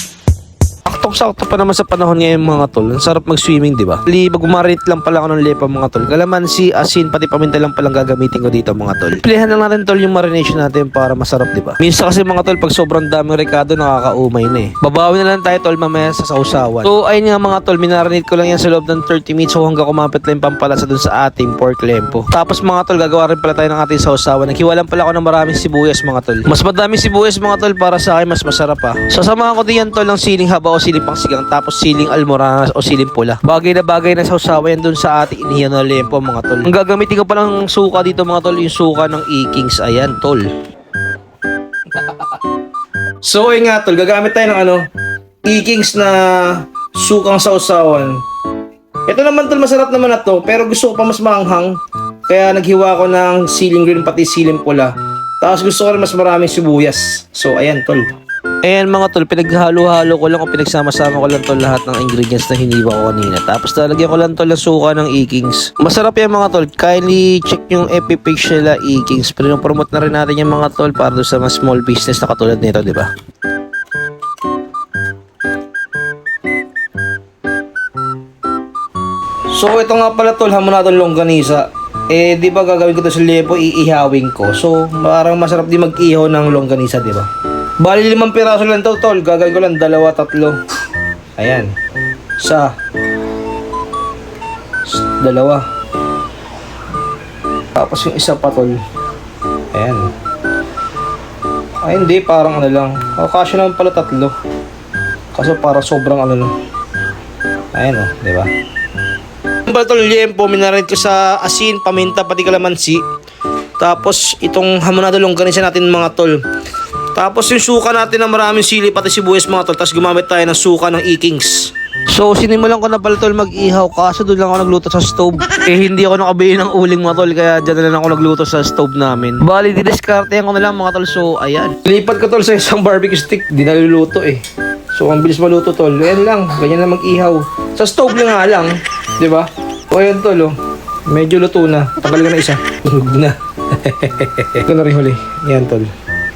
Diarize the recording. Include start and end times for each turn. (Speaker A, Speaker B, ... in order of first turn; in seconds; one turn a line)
Speaker A: 0.8-40.5
Speaker A: 43.2-44.8
Speaker A: 45.4-48.2
Speaker A: 49.1-51.8
Speaker A: 52.3-58.0
Speaker A: 58.6-73.1
Speaker A: 79.5-87.3
Speaker A: 87.8-90.6
Speaker A: 91.4-91.7
Speaker A: 92.4-92.7
Speaker A: 94.8-95.6
Speaker A: 97.7-98.8
Speaker A: 99.7-100.1
Speaker A: 101.8-104.3
Speaker A: 105.3-106.5
Speaker A: 107.7-108.5
Speaker A: 109.7-113.0
Speaker A: 113.8-116.4
Speaker A: 117.1-134.4
Speaker A: 134.9-140.5
Speaker A: 141.1-145.9